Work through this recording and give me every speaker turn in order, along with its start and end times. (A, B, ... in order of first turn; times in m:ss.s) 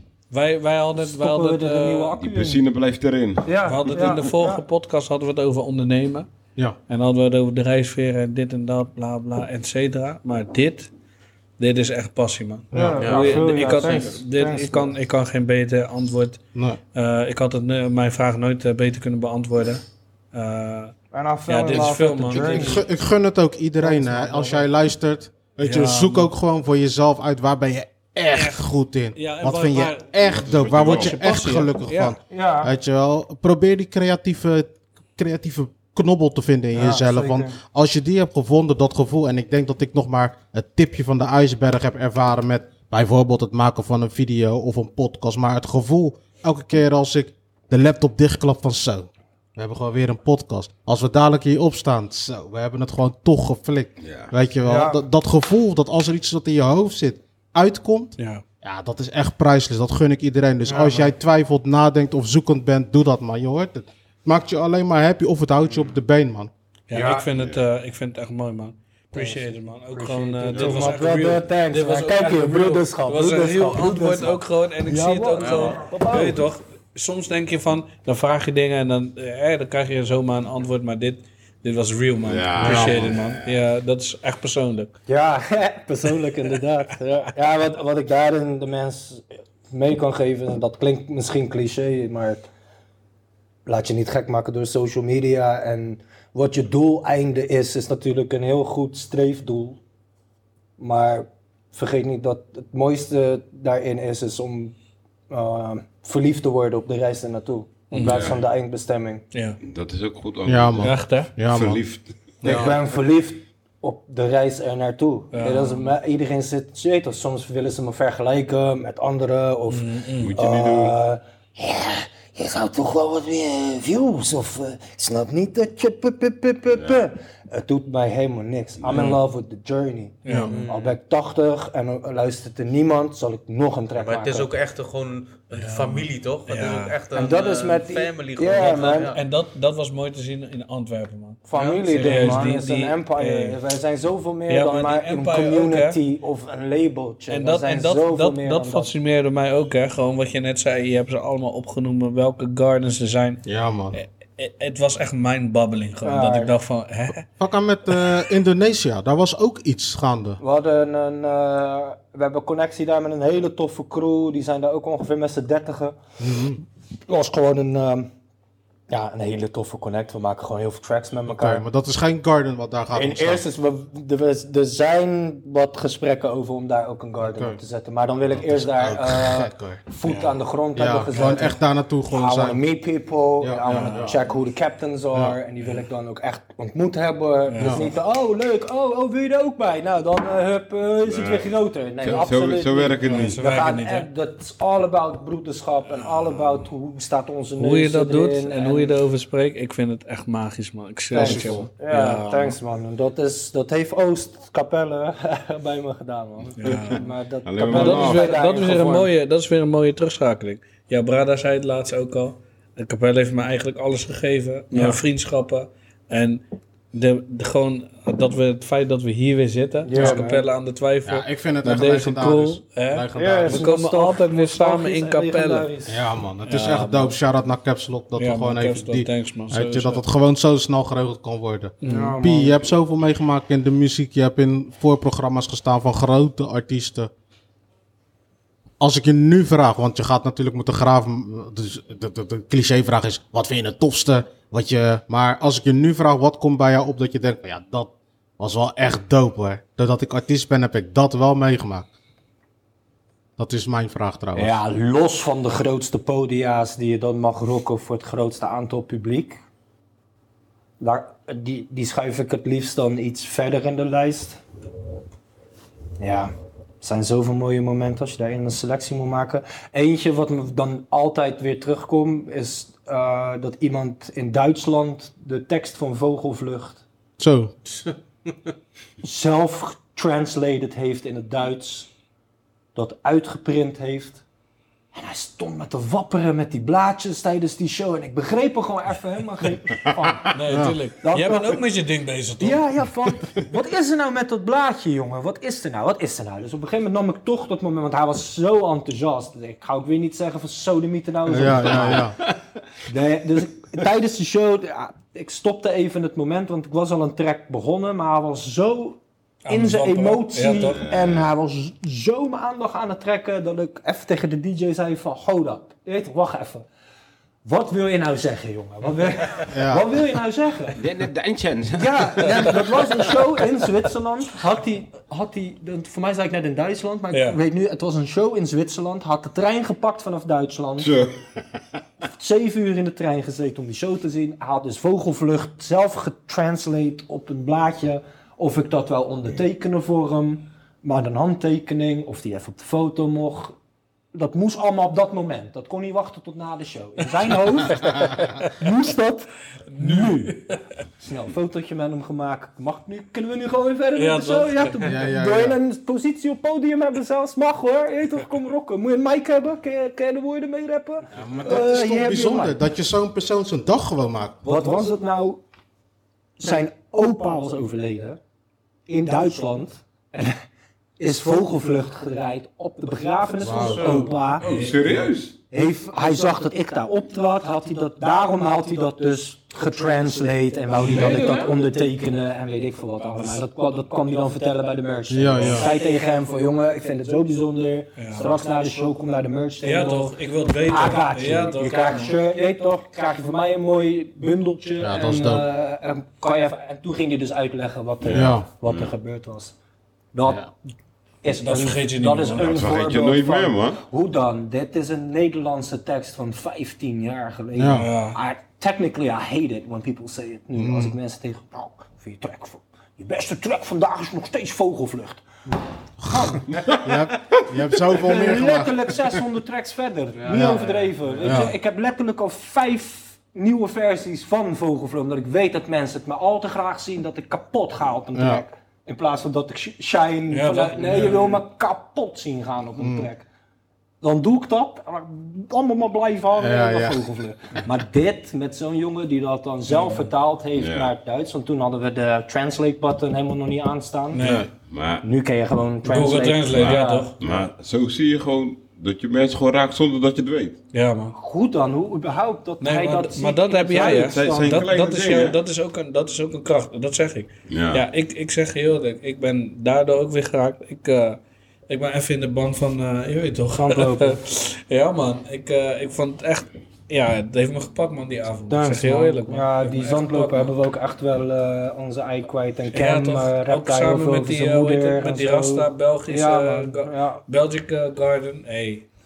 0:00.3-0:02.1 A
0:01.0-0:02.6 B
0:02.2-0:04.2 C
0:03.4-0:04.6 B
0:03.7-0:06.3 A
0:06.9-0:10.9 A
0:11.6-0:16.4 A
0:12.7-0:13.0 D
0:12.7-0:14.9 B
0:13.0-0:14.1 E
0:16.9-0:20.9 A
0:21.1-0:22.8 B
0:21.5-0:22.8 A
0:22.3-1:06.5 D
0:23.8-0:24.7 B
0:25.6-0:26.3 A
0:28.3-0:30.2 A
0:30.2-0:31.2 C
0:30.8-0:32.2 A
0:32.3-0:32.7 B
0:36.7-0:37.6 B
0:54.0-0:54.3 C
0:54.6-0:55.0 B
0:58.2-0:58.4 A
1:00.6-1:01.1 B
1:06.9-1:24.9 A
1:06.9-1:07.3 B
1:07.3-1:07.6 C
1:09.1-1:16.4 B
1:10.5-1:11.0 C
1:15.4-1:15.8 E
1:22.2-1:23.5 C
1:22.6-1:23.1 D
1:25.1-1:32.5 B
1:33.7-1:39.8 B
1:40.8-1:44.8 B
1:45.3-1:49.2 B
1:47.9-1:48.3 A
1:48.0-1:48.4 C
1:49.3-1:49.6 A
1:49.6-1:52.7 C
1:50.5-1:51.8 D
1:50.8-1:51.3 A
1:52.4-1:52.7 D
1:52.4-2:14.5 B
1:55.3-1:55.9 A
1:59.7-2:00.4 A
2:00.2-2:01.0 C
2:06.7-2:07.0 C
2:08.9-2:09.2 A
2:10.2-2:10.6 A
2:10.3-2:10.5 D
2:10.5-2:11.0 E
2:14.0-2:19.2 E
2:15.5-2:17.0 A
2:17.2-2:19.2 B
2:19.1-2:23.6 A
2:21.5-2:28.9 B
2:21.5-2:22.4 E
2:24.5-2:26.0 A
2:27.3-2:37.2 A
2:33.4-2:34.0 D
2:36.0-2:36.5 B
2:37.4-2:40.4 D
2:40.4-2:46.0 B
2:46.2-2:46.6 D
2:47.1-2:48.1 B
2:48.9-2:51.6 B
2:51.3-2:53.4 D
2:52.9-3:01.6 B
2:57.2-2:57.6 D
2:58.3-3:02.6 D
3:01.1-3:01.4 A
3:02.1-3:19.0 B
3:03.4-3:04.2 D
3:03.7-3:04.1 A
3:07.5-3:07.8 A
3:07.6-3:07.9 D
3:11.0-3:13.4 C
3:13.0-3:14.1 A
3:17.6-3:22.6 A
3:21.1-3:21.7 D
3:21.1-3:29.1 B
3:26.6-3:27.0 A
3:26.6-3:28.4 C
3:27.7-3:36.4 A
3:34.7-3:35.0 B
3:36.9-3:45.7 A
3:39.8-3:40.4 B
3:41.1-3:43.7 D
3:43.2-3:46.0 B
3:45.9-3:57.1 D
3:46.4-3:47.2 A
3:48.2-3:50.0 A
3:51.8-3:52.2 A
3:51.8-3:52.6 B
3:58.8-4:11.9 D
4:13.4-4:14.6 D
4:14.4-4:19.4 B
4:20.8-4:24.4 B
4:26.0-4:36.8 B
4:37.2-4:37.5 D
4:39.0-4:41.9 B
4:42.8-4:44.2 B
4:44.9-4:50.4 B
4:50.3-4:52.6 A
4:50.5-4:50.8 D
4:51.0-4:51.6 B
4:52.4-5:02.1 B
5:01.3-5:02.2 D
5:02.8-5:16.7 B
5:09.4-5:10.8 A
5:10.7-5:11.3 C
5:17.4-5:20.8 B
5:19.5-5:19.8 D
5:20.8-5:22.5 C
5:21.7-5:31.0 B
5:27.1-5:27.4 A
5:30.8-5:31.2 C
5:32.1-5:43.6 B
5:44.1-5:50.4 B
5:49.7-5:50.6 A
5:51.0-6:02.6 B
5:54.0-5:54.9 A
5:54.8-5:55.6 D
6:01.1-6:04.5 D
6:04.4-6:05.4 B
6:06.4-6:08.2 B
6:08.9-6:10.4 B
6:11.0-6:14.5 B
6:13.4-6:14.0 D
6:13.4-6:14.1 E
6:14.4-6:15.3 C
6:14.4-6:15.1 A
6:15.5-6:39.6 B
6:20.8-6:21.4 A
6:20.9-6:21.6 E
6:25.1-6:25.7 D
6:28.0-6:28.3 A
6:29.6-6:32.1 A
6:34.8-6:35.5 D
6:38.0-6:38.9 C
6:38.1-6:38.5 D
6:40.1-6:40.5 B
6:41.2-6:55.3 B
6:41.3-6:42.5 A
6:42.4-6:43.8 C
6:47.6-6:47.9 D
6:47.7-6:48.2 A
6:50.6-6:50.9 D
6:56.0-6:58.9 D
6:56.0-6:56.5 B
6:56.5-6:56.9 C
6:57.9-7:13.3 B
7:00.2-7:01.4 E
7:00.3-7:01.5 D
7:08.2-7:08.4 D
7:10.3-7:11.4 A
7:12.8-7:13.1 D
7:14.0-7:24.2 B
7:16.4-7:17.0 D
7:19.7-7:20.1 A
7:20.6-7:20.9 C
7:24.1-7:24.5 A
7:24.2-7:25.1 C
7:25.0-7:27.2 B
7:25.9-7:27.1 A
7:26.5-7:30.6 C
7:30.7-7:31.2 A
7:31.1-7:34.8 B
7:32.6-7:50.5 A
7:33.9-7:35.4 C
7:37.5-7:37.8 C
7:43.5-7:44.2 B
7:48.5-7:57.2 B
7:52.7-7:58.9 A